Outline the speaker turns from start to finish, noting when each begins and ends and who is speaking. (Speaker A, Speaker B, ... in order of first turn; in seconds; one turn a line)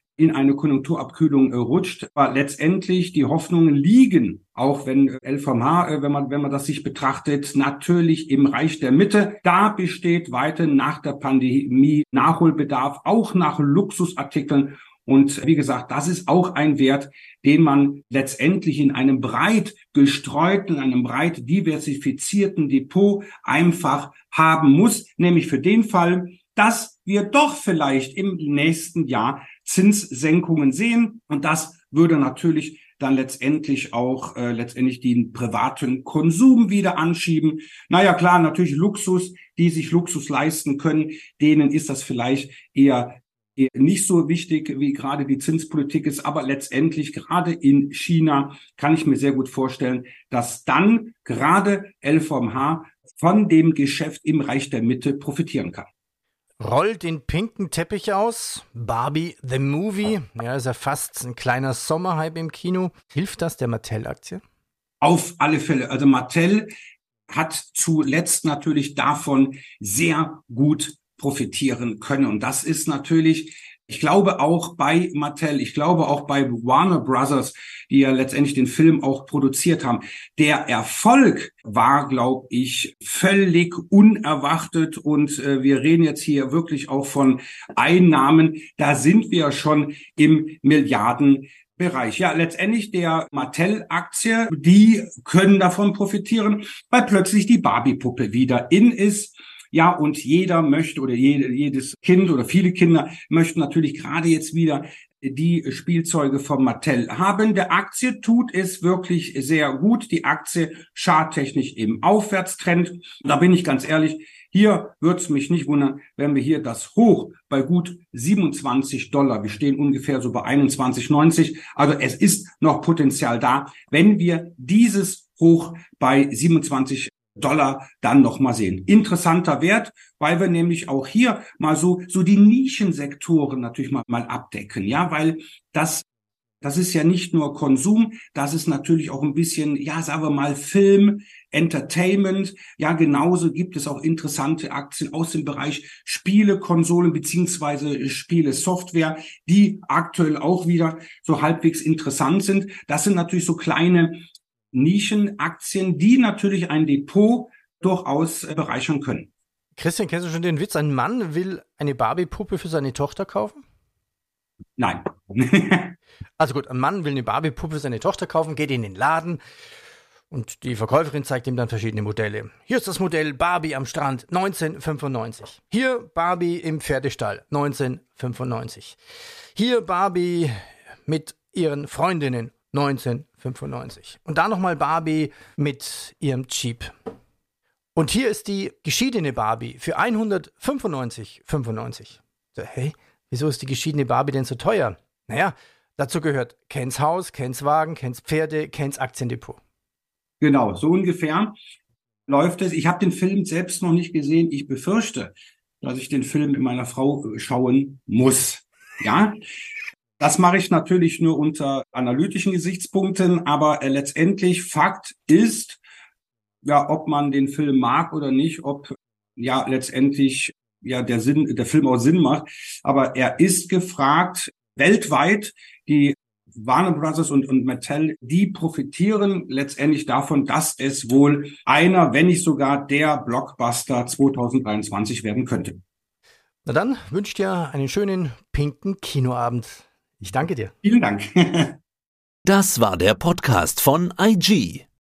Speaker A: 0.2-55.9
Speaker B: 56.6-64.4
Speaker A: 65.0-66.7
Speaker A: 67.3-136.1
Speaker A: 136.6-159.3
Speaker B: 159.8-163.6
Speaker A: 164.8-165.9
Speaker B: 166.4-169.4
Speaker B: 170.3-179.0
Speaker B: 179.6-180.5
Speaker B: 181.1-186.9
Speaker B: 187.9-199.6
Speaker A: 200.4-201.6
Speaker A: 202.3-209.4
Speaker A: 210.2-215.8
Speaker A: 216.6-235.8
Speaker B: 236.7-240.7
Speaker A: 240.8-241.8
Speaker C: 242.5-244.8